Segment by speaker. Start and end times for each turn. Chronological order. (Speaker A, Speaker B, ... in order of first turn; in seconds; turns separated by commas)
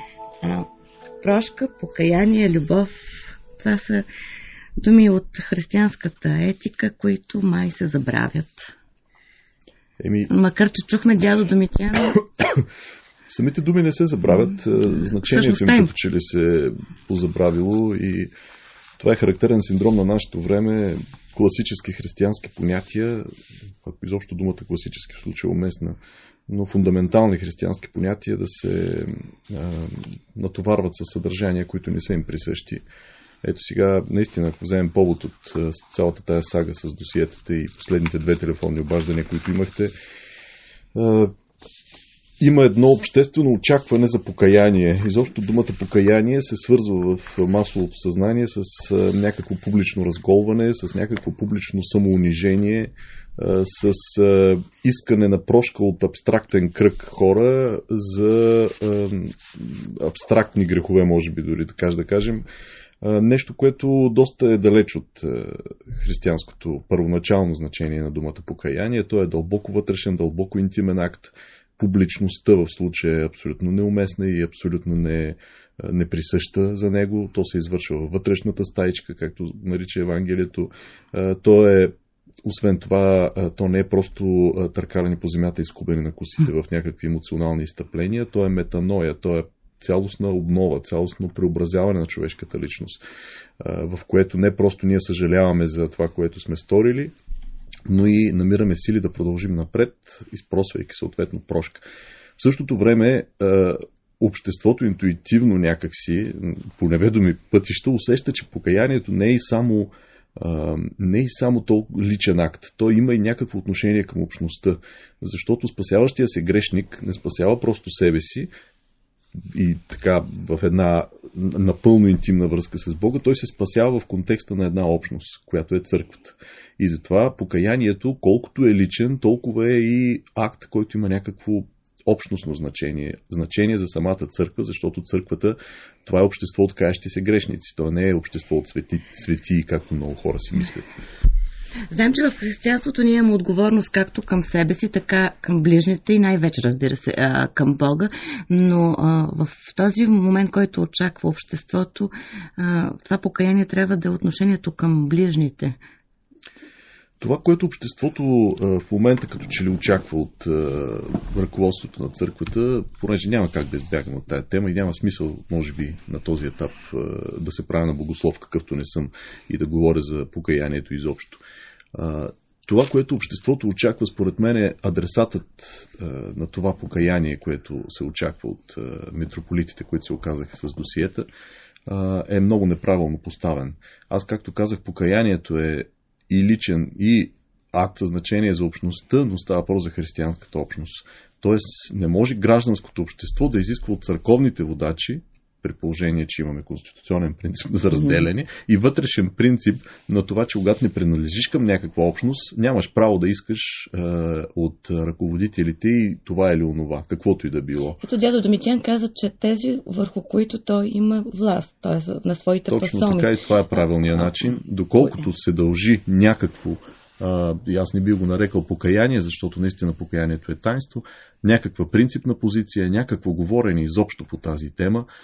Speaker A: 0.4-0.7, Speaker A: 1.2-4.0, Speaker A: 4.8-8.7, Speaker B: 10.0-10.3, Speaker A: 10.3-12.3, Speaker B: 13.3-18.3, Speaker A: 15.0-15.9, Speaker B: 19.0-23.3, Speaker B: 23.8-32.8, Speaker B: 33.4-39.9, Speaker B: 41.0-41.3, Speaker B: 42.4-62.5, Speaker B: 63.0-93.0, Speaker B: 93.6-97.1, Speaker B: 97.9-101.8, Speaker B: 102.4-118.5, Speaker B: 119.4-140.9, Speaker A: 141.9-155.8, Speaker B: 157.2-171.4, Speaker B: 171.9-181.3, Speaker B: 181.9-208.0, Speaker A: 197.9-198.3, Speaker A: 208.0-214.1, Speaker B: 212.7-225.1